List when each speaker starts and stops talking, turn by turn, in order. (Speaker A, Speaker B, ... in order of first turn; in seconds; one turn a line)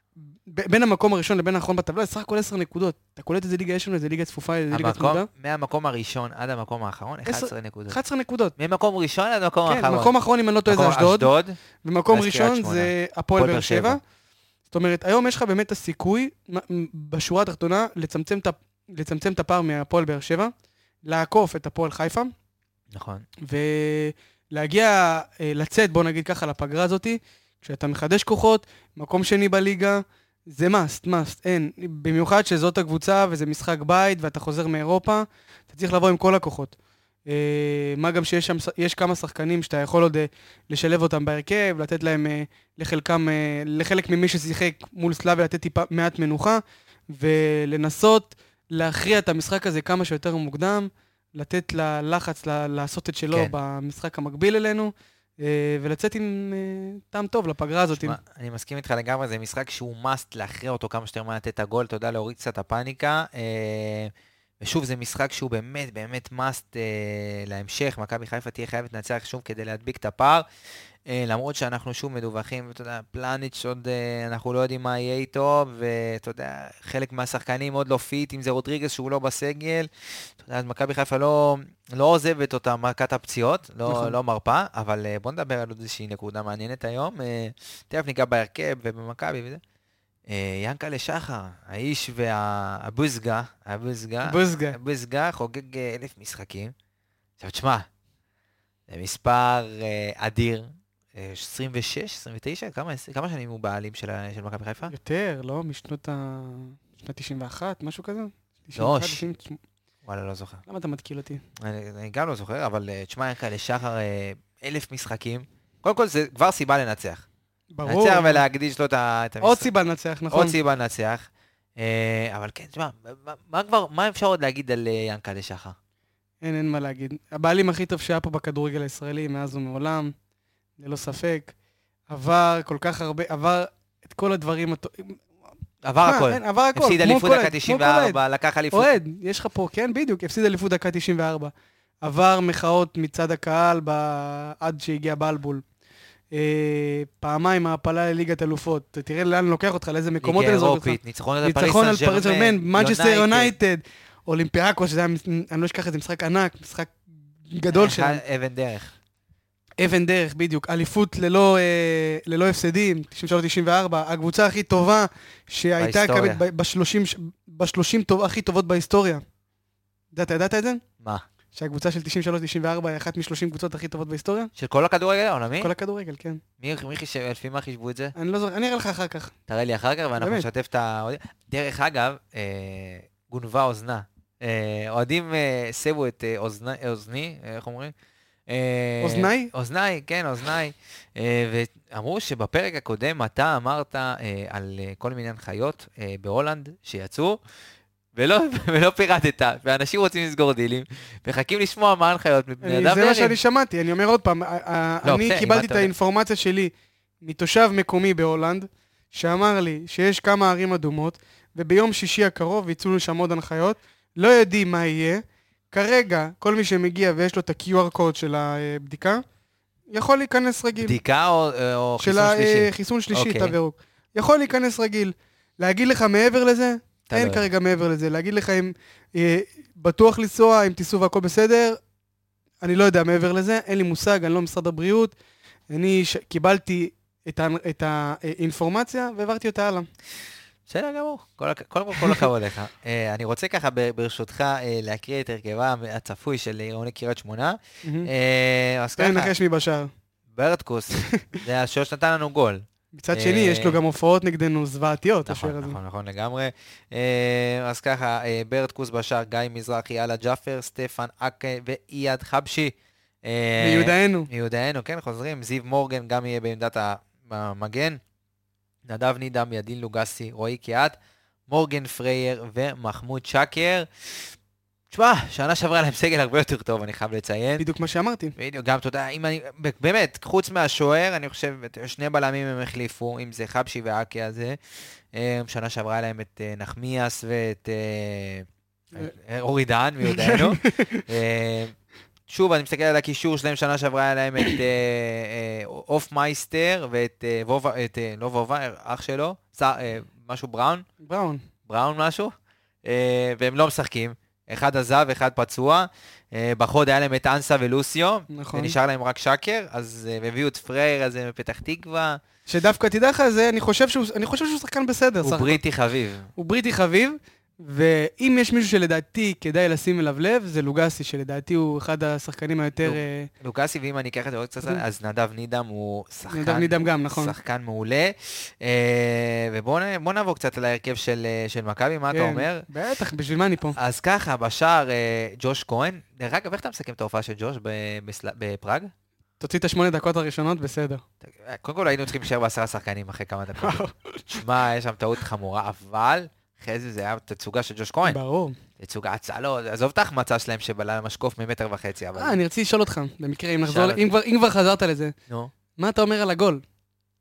Speaker A: 0.5-5.3
Speaker B: 4.7-8.0
Speaker A: 7.3-8.5
Speaker B: 8.6-10.1
Speaker A: 9.7-11.3
Speaker B: 10.7-11.6
Speaker A: 11.8-14.0
Speaker B: 12.1-14.0
Speaker A: 14.7-20.5
Speaker A: 21.0-22.3
Speaker B: 22.9-23.3
Speaker A: 23.4-36.8
Speaker A: 37.3-58.2
Speaker B: 57.9-70.5
Speaker B: 71.1-89.6
Speaker A: 83.9-84.2
Speaker B: 90.3-96.7
Speaker A: 94.2-94.8
Speaker B: 97.4-97.9
Speaker B: 98.9-104.9
Speaker A: 104.9-109.6
Speaker B: 108.8-109.2
Speaker B: 110.1-110.6
Speaker A: 110.7-111.4
Speaker B: 111.6-117.2
Speaker A: 117.7-118.4
Speaker B: 117.8-119.7
Speaker A: 119.4-120.5
Speaker B: 120.3-121.3
Speaker B: 121.8-125.8
Speaker A: 126.4-130.1
Speaker A: 130.8-131.5
Speaker A: 132.1-135.2
Speaker B: 135.8-138.9
Speaker A: 136.0-138.2
Speaker A: 138.7-145.6
Speaker A: 146.3-158.2
Speaker B: 150.2-153.5
Speaker B: 157.7-158.9
Speaker A: 159.8-169.2
Speaker B: 165.8-166.4
Speaker A: 170.1-170.8
Speaker A: 171.6-174.5
Speaker B: 174.6-175.7
Speaker A: 175.6-176.4
Speaker B: 176.6-178.1
Speaker A: 178.2-179.3
Speaker B: 179.5-187.9
Speaker A: 180.2-180.5
Speaker B: 188.5-197.4
Speaker A: 189.0-189.5
Speaker B: 198.2-203.4
Speaker A: 202.6-219.2
Speaker B: 205.0-205.9
Speaker A: 219.9-221.0
Speaker B: 220.8-223.6
Speaker A: 222.0-231.8
Speaker B: 227.1-227.5
Speaker A: 232.6-235.2
Speaker A: 235.7-239.9
Speaker B: 240.7-249.3
Speaker A: 241.9-242.2
Speaker A: 247.8-248.1
Speaker A: 249.0-249.9
Speaker B: 250.3-253.8
Speaker A: 251.0-251.4
Speaker A: 252.9-255.8
Speaker B: 255.3-268.0
Speaker A: 263.6-264.3
Speaker B: 268.9-271.0
Speaker B: 271.5-274.3
Speaker B: 274.9-277.6
Speaker A: 277.6-278.4
Speaker B: 278.4-284.6
Speaker B: 285.1-291.8
Speaker A: 290.0-291.1
Speaker B: 292.3-300.9
Speaker A: 301.0-301.4
Speaker B: 301.7-302.3
Speaker B: 302.9-312.2
Speaker A: 308.3-308.8
Speaker A: 312.5-315.6
Speaker B: 315.2-316.3
Speaker A: 316.4-323.3
Speaker B: 322.8-332.7
Speaker A: 326.3-327.4
Speaker A: 332.1-333.8
Speaker B: 333.8-338.9
Speaker A: 339.4-341.0
Speaker B: 341.2-348.2
Speaker A: 343.6-344.4
Speaker A: 348.1-348.6
Speaker B: 348.8-352.4
Speaker A: 352.2-355.1
Speaker B: 353.7-354.1
Speaker A: 355.8-356.6